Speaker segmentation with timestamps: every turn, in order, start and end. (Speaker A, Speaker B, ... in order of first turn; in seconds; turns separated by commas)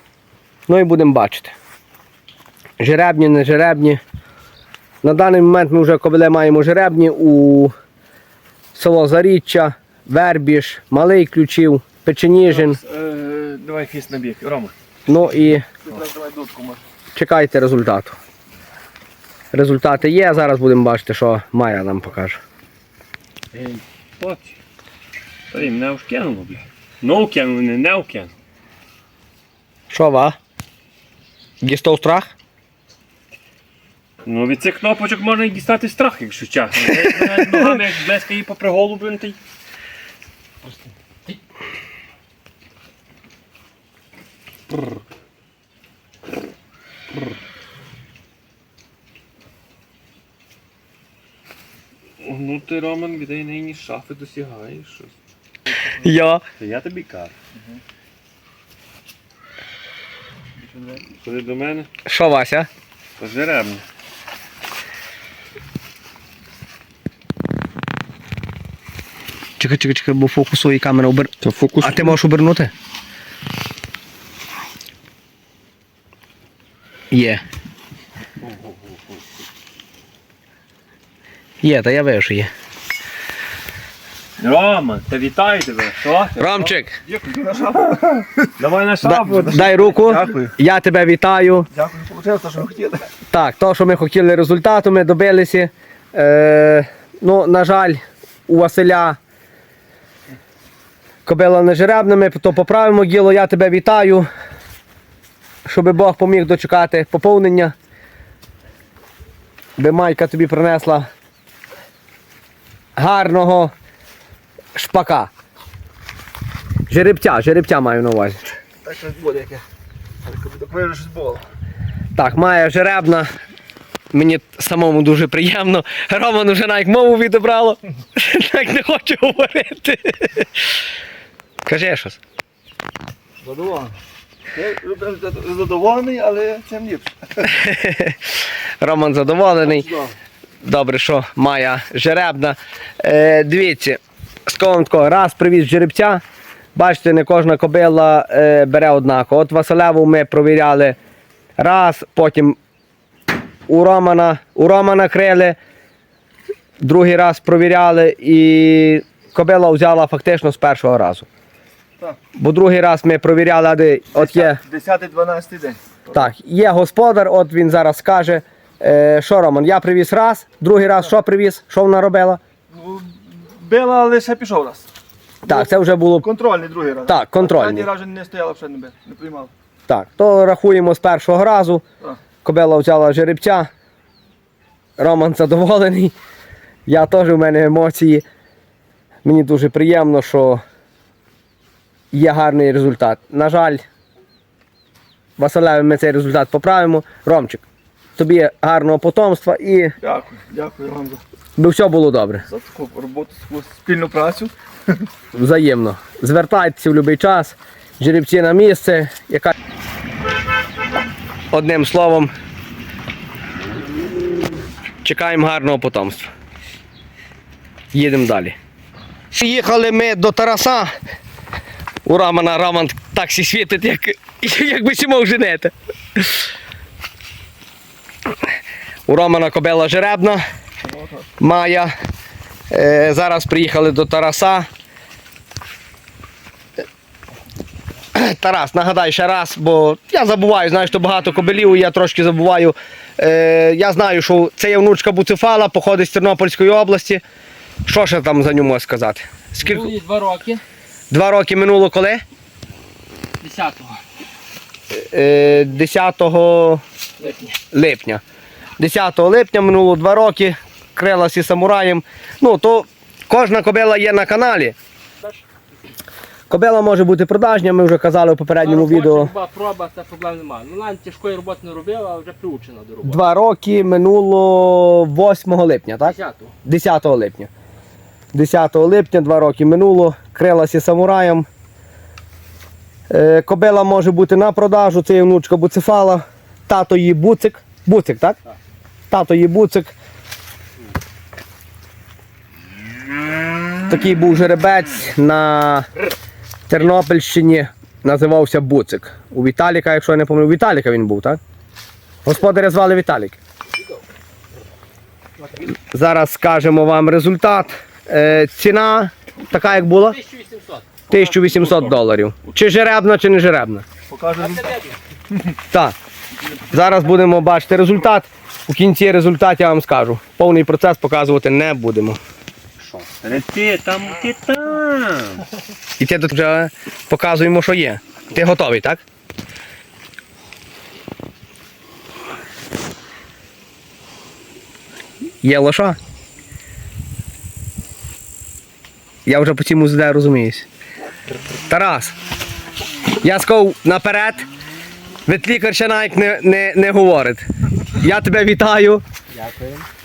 Speaker A: 0.7-1.5, Speaker A: 2.8-4.0, Speaker A: 5.0-7.7, Speaker A: 8.7-12.8, Speaker B: 12.7-14.7, Speaker A: 15.1-15.7, Speaker C: 15.8-16.8, Speaker A: 17.1-18.2, Speaker A: 19.5-22.4, Speaker B: 23.6-24.6, Speaker B: 25.5-28.3, Speaker A: 29.9-30.4, Speaker A: 31.6-32.3, Speaker B: 34.2-39.4, Speaker B: 52.2-55.1, Speaker A: 56.0-56.4, Speaker B: 56.6-57.3, Speaker C: 57.5-57.8, Speaker C: 60.6-61.0, Speaker B: 61.1-61.9, Speaker A: 62.0-62.7, Speaker B: 63.2-63.8, Speaker A: 69.6-72.7, Speaker C: 71.5-71.9, Speaker A: 77.1-77.4, Speaker A: 81.6-82.5, Speaker B: 84.4-86.7, Speaker A: 86.4-87.0, Speaker C: 87.1-88.4, Speaker B: 88.6-90.2, Speaker A: 89.0-91.7, Speaker C: 89.3-90.5, Speaker C: 91.7-93.1, Speaker A: 93.3-99.2, Speaker A: 101.2-104.3, Speaker A: 105.7-107.7, Speaker A: 109.8-111.1, Speaker A: 113.0-113.7, Speaker A: 114.7-115.3, Speaker A: 116.9-118.4, Speaker C: 118.8-119.6, Speaker C: 120.2-121.4, Speaker A: 122.2-123.3, Speaker A: 124.1-130.7, Speaker A: 131.6-132.2, Speaker C: 133.4-134.0, Speaker C: 134.5-137.5, Speaker A: 137.5-139.9, Speaker C: 139.7-140.1, Speaker A: 140.6-146.2, Speaker A: 146.8-151.0, Speaker A: 151.6-152.6, Speaker A: 153.7-155.6, Speaker A: 156.8-161.3, Speaker A: 162.3-164.6, Speaker C: 164.1-166.3, Speaker A: 166.1-172.4, Speaker C: 172.7-174.9, Speaker A: 175.4-176.3, Speaker C: 175.5-179.5, Speaker A: 177.1-177.9, Speaker A: 179.9-181.8, Speaker A: 182.4-183.7, Speaker A: 185.0-186.1, Speaker A: 186.8-188.2, Speaker A: 189.2-190.6, Speaker A: 192.1-193.8, Speaker A: 195.4-197.6, Speaker A: 198.2-199.9, Speaker C: 200.0-201.2, Speaker A: 201.6-202.4, Speaker C: 202.5-205.0, Speaker A: 205.3-209.5, Speaker A: 211.5-212.3, Speaker A: 215.0-216.3, Speaker A: 217.9-218.6, Speaker A: 219.3-220.9, Speaker A: 222.0-226.4, Speaker A: 229.1-230.4, Speaker C: 230.8-231.3, Speaker A: 231.4-231.9, Speaker A: 232.7-234.7, Speaker A: 238.1-247.2, Speaker A: 247.8-249.9, Speaker D: 249.6-250.6, Speaker A: 251.1-252.2, Speaker D: 253.4-254.0, Speaker A: 254.9-256.8, Speaker D: 257.2-257.6, Speaker A: 257.7-258.2, Speaker A: 258.8-264.8, Speaker A: 266.5-269.3, Speaker D: 268.6-273.2, Speaker A: 273.0-277.5, Speaker D: 276.0-276.5, Speaker A: 278.3-281.5, Speaker A: 283.1-288.4, Speaker A: 289.1-289.9, Speaker A: 293.9-295.9, Speaker A: 296.7-301.4, Speaker A: 302.2-303.4, Speaker D: 303.7-304.0, Speaker D: 305.4-305.6, Speaker A: 305.7-310.2, Speaker D: 309.7-310.9, Speaker A: 311.1-313.8, Speaker C: 311.1-312.0, Speaker C: 314.1-314.7, Speaker D: 314.4-315.0, Speaker A: 316.7-322.2, Speaker B: 322.8-325.4, Speaker A: 326.0-329.0, Speaker A: 335.4-336.0, Speaker A: 339.2-340.7, Speaker A: 341.6-342.1, Speaker A: 343.2-344.4, Speaker A: 345.2-349.0, Speaker D: 349.3-349.9